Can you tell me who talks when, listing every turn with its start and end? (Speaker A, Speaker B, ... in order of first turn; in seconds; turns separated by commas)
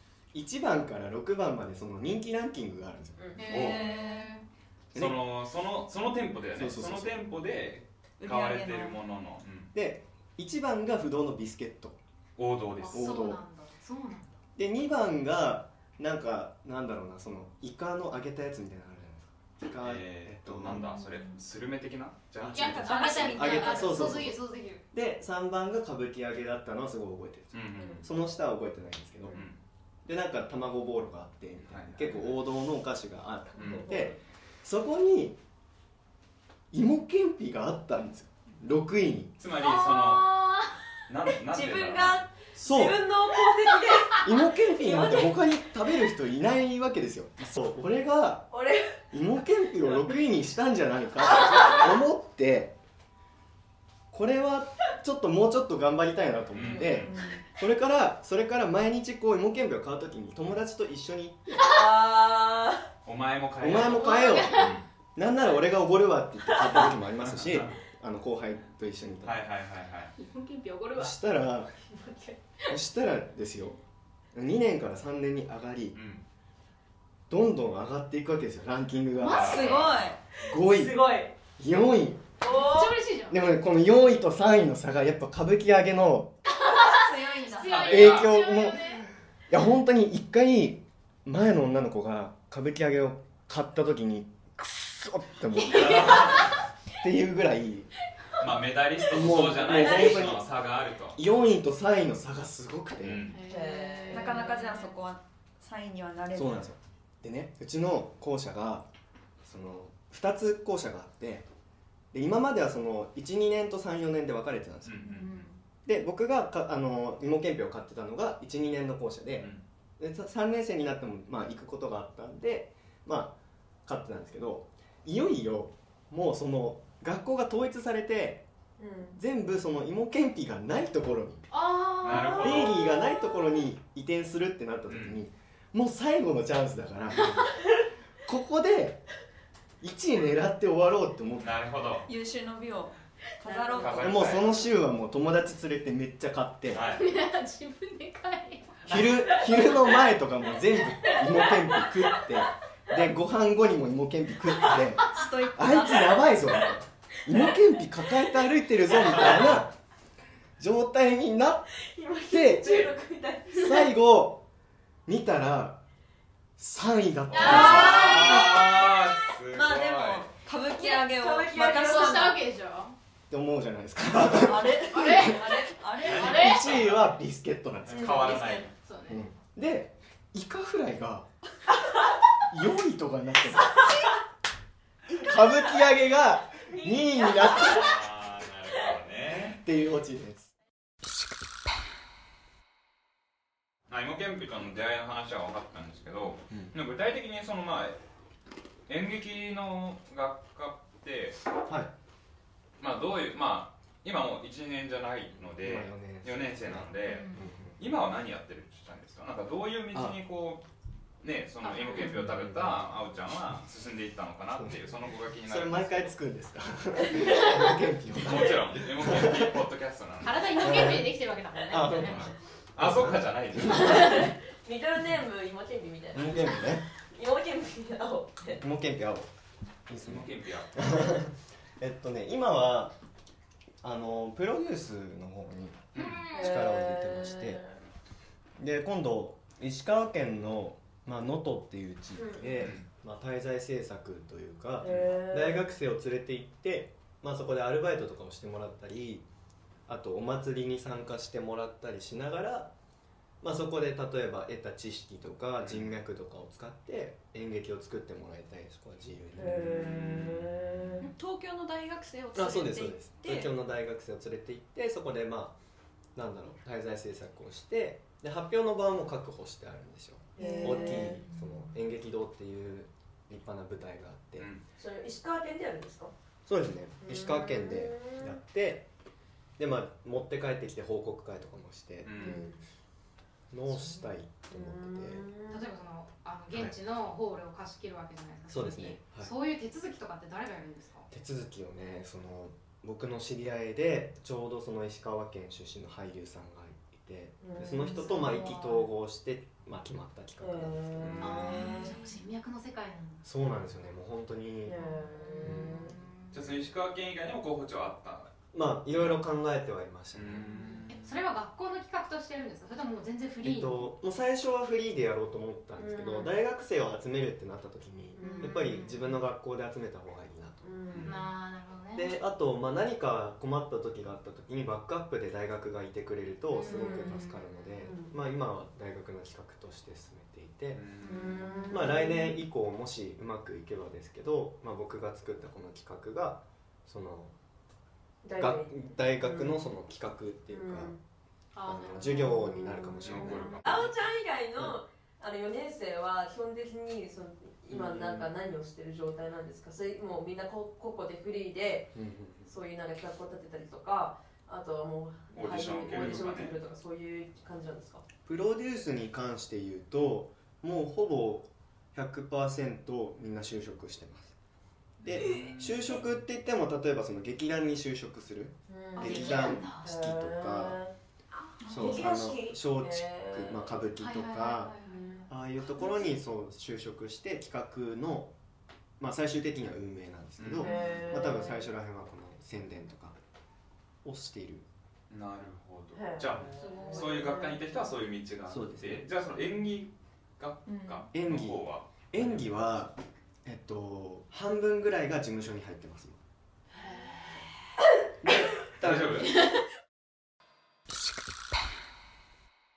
Speaker A: 0.3-3.4, Speaker B: 3.4-4.4, Speaker C: 3.4-4.3, Speaker D: 3.5-3.8, Speaker A: 4.9-5.2, Speaker D: 4.9-9.7, Speaker A: 6.5-7.2, Speaker C: 8.2-9.0, Speaker A: 9.7-12.0, Speaker D: 12.4-13.1, Speaker B: 12.8-14.3, Speaker A: 12.9-13.4, Speaker A: 14.6-20.9, Speaker D: 19.7-23.3, Speaker B: 22.5-24.8, Speaker C: 22.9-23.9, Speaker A: 23.3-24.4, Speaker A: 24.9-29.4, Speaker D: 27.5-28.1, Speaker D: 29.3-29.6, Speaker A: 30.0-35.4, Speaker D: 31.7-32.4, Speaker D: 33.6-34.1, Speaker E: 33.6-34.0, Speaker A: 36.7-39.4, Speaker D: 39.4-42.2, Speaker B: 39.6-40.7, Speaker C: 41.5-42.3, Speaker A: 42.5-43.0, Speaker E: 42.6-45.4, Speaker A: 44.2-48.5, Speaker E: 48.5-48.9, Speaker A: 49.1-52.8, Speaker A: 54.1-61.6, Speaker D: 56.5-57.1, Speaker E: 56.8-57.4, Speaker E: 61.6-62.9, Speaker D: 63.0-64.8, Speaker A: 63.6-69.4, Speaker B: 63.8-64.8, Speaker D: 66.6-67.8, Speaker D: 69.2-70.1, Speaker B: 70.2-71.2, Speaker A: 71.0-71.7, Speaker E: 71.9-72.3, Speaker A: 72.7-73.8, Speaker A: 74.3-76.0, Speaker D: 75.9-76.2, Speaker A: 77.3-79.9, Speaker D: 79.2-80.0, Speaker C: 79.3-80.2, Speaker B: 79.5-80.0, Speaker E: 80.5-81.3, Speaker A: 80.5-82.3, Speaker B: 82.4-83.5, Speaker E: 82.4-82.9, Speaker A: 83.3-86.3, Speaker B: 86.5-89.0, Speaker C: 86.6-87.9, Speaker D: 87.6-88.5, Speaker A: 87.9-96.4, Speaker D: 95.6-96.5, Speaker B: 95.7-96.4, Speaker A: 97.0-97.9, Speaker D: 98.4-101.2, Speaker A: 99.0-100.5, Speaker A: 101.1-103.3, Speaker D: 103.0-103.4, Speaker B: 103.3-105.0, Speaker E: 103.5-104.5, Speaker C: 104.1-106.6, Speaker A: 106.3-108.9, Speaker A: 109.4-111.5, Speaker A: 112.1-115.1, Speaker D: 114.8-115.5, Speaker C: 115.0-115.5, Speaker A: 115.8-128.4, Speaker D: 119.4-119.6, Speaker E: 128.8-129.2, Speaker A: 129.2-131.5, Speaker B: 131.5-133.2, Speaker D: 132.0-132.8, Speaker A: 132.2-137.4, Speaker D: 134.9-135.2, Speaker A: 138.2-139.0, Speaker A: 139.8-141.6, Speaker D: 141.4-142.1, Speaker C: 142.1-144.3, Speaker E: 143.4-144.0, Speaker D: 143.8-144.7, Speaker A: 144.0-146.8, Speaker D: 146.7-147.1, Speaker B: 146.8-149.7, Speaker A: 148.8-159.7, Speaker C: 155.0-156.2, Speaker A: 160.6-161.7, Speaker E: 161.8-163.9, Speaker A: 162.3-162.9, Speaker A: 163.5-164.4, Speaker A: 165.1-165.8, Speaker A: 166.6-168.4, Speaker D: 167.3-170.3, Speaker B: 167.3-168.6, Speaker C: 169.5-172.4, Speaker E: 170.8-172.3, Speaker B: 170.8-172.9, Speaker A: 173.3-175.4, Speaker C: 174.3-176.4, Speaker B: 174.9-176.8, Speaker E: 175.2-175.7, Speaker D: 176.0-177.1, Speaker A: 176.1-178.3, Speaker D: 177.8-178.7, Speaker B: 178.0-179.2, Speaker A: 179.1-181.3, Speaker A: 182.5-183.9, Speaker A: 185.1-188.0, Speaker D: 187.4-189.6, Speaker A: 189.3-190.5, Speaker D: 193.9-198.0, Speaker D: 198.9-201.4, Speaker A: 201.7-201.9, Speaker D: 202.8-210.6, Speaker A: 205.6-207.8, Speaker B: 207.0-207.4, Speaker A: 209.9-210.2, Speaker D: 211.2-216.2, Speaker B: 211.6-212.3, Speaker A: 212.0-212.9, Speaker A: 214.5-214.8, Speaker A: 215.4-219.6, Speaker D: 218.2-220.8, Speaker B: 220.2-222.3, Speaker A: 220.6-221.1, Speaker A: 221.7-224.0, Speaker D: 221.9-224.3, Speaker E: 223.9-228.6, Speaker A: 226.1-226.8, Speaker A: 228.6-229.3, Speaker A: 229.9-232.9, Speaker D: 230.0-230.8, Speaker A: 233.8-237.6, Speaker D: 235.9-236.2, Speaker B: 236.0-236.6, Speaker E: 236.3-237.8, Speaker A: 238.6-249.2, Speaker E: 242.2-242.5, Speaker D: 242.6-242.8, Speaker E: 244.8-245.7, Speaker D: 244.8-245.1, Speaker A: 249.9-252.7, Speaker A: 253.4-260.3, Speaker D: 255.6-255.9, Speaker E: 259.4-261.0, Speaker D: 259.5-260.8, Speaker C: 261.0-263.5, Speaker A: 262.3-265.6, Speaker A: 266.1-274.5, Speaker E: 270.4-271.2, Speaker C: 270.4-271.1, Speaker D: 274.4-274.6, Speaker E: 274.8-276.1, Speaker A: 276.4-278.9, Speaker E: 277.0-278.4, Speaker A: 279.6-282.5, Speaker D: 282.0-282.5, Speaker E: 282.2-282.6, Speaker A: 283.5-285.3, Speaker B: 283.8-284.1, Speaker E: 284.5-285.6, Speaker B: 285.5-291.1, Speaker A: 288.5-289.3, Speaker A: 291.1-301.4, Speaker E: 297.4-298.3, Speaker B: 297.8-298.9, Speaker E: 300.4-301.9, Speaker D: 301.0-301.7, Speaker B: 301.2-303.2, Speaker C: 301.7-302.0, Speaker A: 303.2-304.8, Speaker E: 304.6-305.9, Speaker B: 304.7-306.4, Speaker A: 305.4-305.9, Speaker D: 306.3-308.3, Speaker A: 308.5-310.4, Speaker D: 308.9-309.2, Speaker D: 310.1-311.0, Speaker B: 310.4-313.9, Speaker A: 313.4-320.8, Speaker E: 315.8-316.3, Speaker E: 318.2-318.8, Speaker B: 318.2-319.2, Speaker E: 320.6-321.1, Speaker D: 320.9-321.2, Speaker B: 321.0-322.1, Speaker A: 321.9-330.9, Speaker B: 326.5-327.7, Speaker E: 326.6-327.3, Speaker E: 327.8-328.1, Speaker D: 330.7-331.5, Speaker B: 331.0-331.8, Speaker E: 331.1-332.4, Speaker A: 331.7-337.3, Speaker E: 338.2-339.7, Speaker A: 338.4-340.9, Speaker E: 340.5-341.0, Speaker B: 341.5-342.6, Speaker A: 341.6-343.9, Speaker E: 342.1-358.0, Speaker D: 343.0-343.9, Speaker A: 347.7-348.3, Speaker A: 351.9-352.5, Speaker D: 355.3-356.5, Speaker A: 355.9-356.3, Speaker A: 358.2-364.4, Speaker D: 365.0-366.2, Speaker A: 365.0-370.8, Speaker E: 368.7-370.9, Speaker B: 368.9-369.9, Speaker C: 371.6-372.1, Speaker A: 371.7-374.7, Speaker E: 371.7-373.7, Speaker B: 374.0-375.2, Speaker E: 374.8-375.3, Speaker A: 375.3-378.3, Speaker A: 379.0-383.1, Speaker D: 380.4-380.7, Speaker E: 380.6-381.6, Speaker B: 380.6-381.1, Speaker A: 384.0-384.6, Speaker D: 385.1-392.6, Speaker E: 385.9-387.6, Speaker B: 386.6-387.5, Speaker A: 388.5-389.1, Speaker C: 390.7-391.0, Speaker A: 391.1-396.2, Speaker B: 396.7-397.4, Speaker A: 398.2-399.3, Speaker D: 398.7-399.4